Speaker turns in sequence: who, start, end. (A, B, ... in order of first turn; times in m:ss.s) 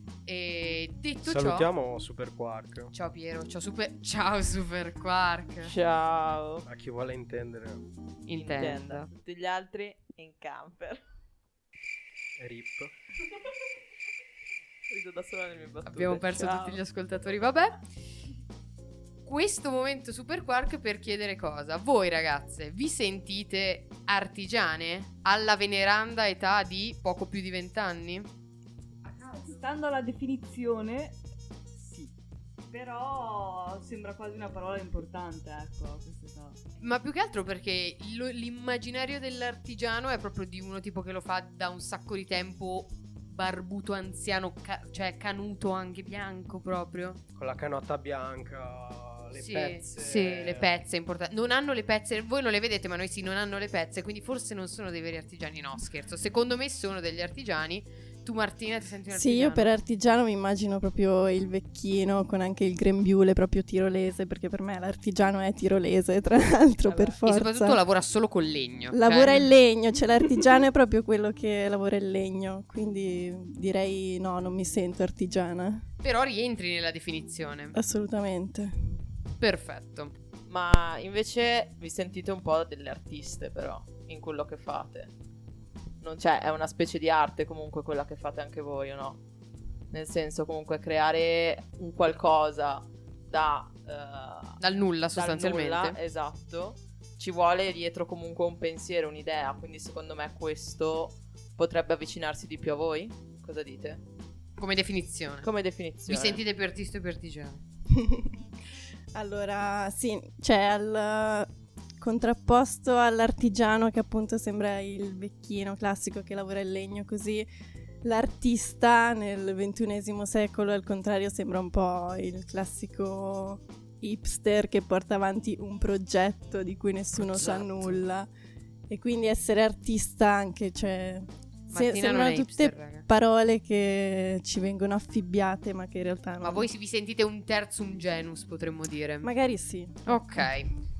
0:00.2-0:01.7 A
0:01.2-0:02.9 B
0:02.9-0:05.8 A
0:05.6-0:06.7 C
0:06.7-0:07.8 B
0:08.3-0:09.1 A
0:08.4-0:11.0 C
0:12.4-0:12.9 B
0:14.9-0:16.8 C
0:15.9-0:17.8 A
0:19.2-0:28.3 A
0:29.1-0:31.2 D
0:31.7-0:32.1 D
0:32.7-0:36.6 D
0:36.8-0:47.2 A
0:47.4-0:50.7 B
0:49.4-0:59.7 A
0:59.1-1:07.8 E
1:06.9-1:07.2 C
1:07.2-1:09.5 A
1:08.9-1:15.8 E
1:16.0-1:17.8 A
1:17.8-1:18.7 E
1:19.4-1:20.2 A
1:20.5-1:25.1 C
1:26.0-1:29.2 C
1:29.9-1:34.6 C
1:34.6-1:36.0 A
1:35.1-1:44.0 C
1:44.6-1:45.5 A
1:45.4-1:46.4 C
1:46.1-1:47.6 A
1:47.9-1:48.4 E
1:49.1-1:51.5 E
1:52.0-1:57.5 E
1:58.0-2:08.3 E
2:07.2-2:08.0 A
2:08.9-2:16.7 E
2:11.7-2:13.0 A
2:16.4-2:19.3 A
2:19.2-2:20.2 E
2:20.1-2:20.7 A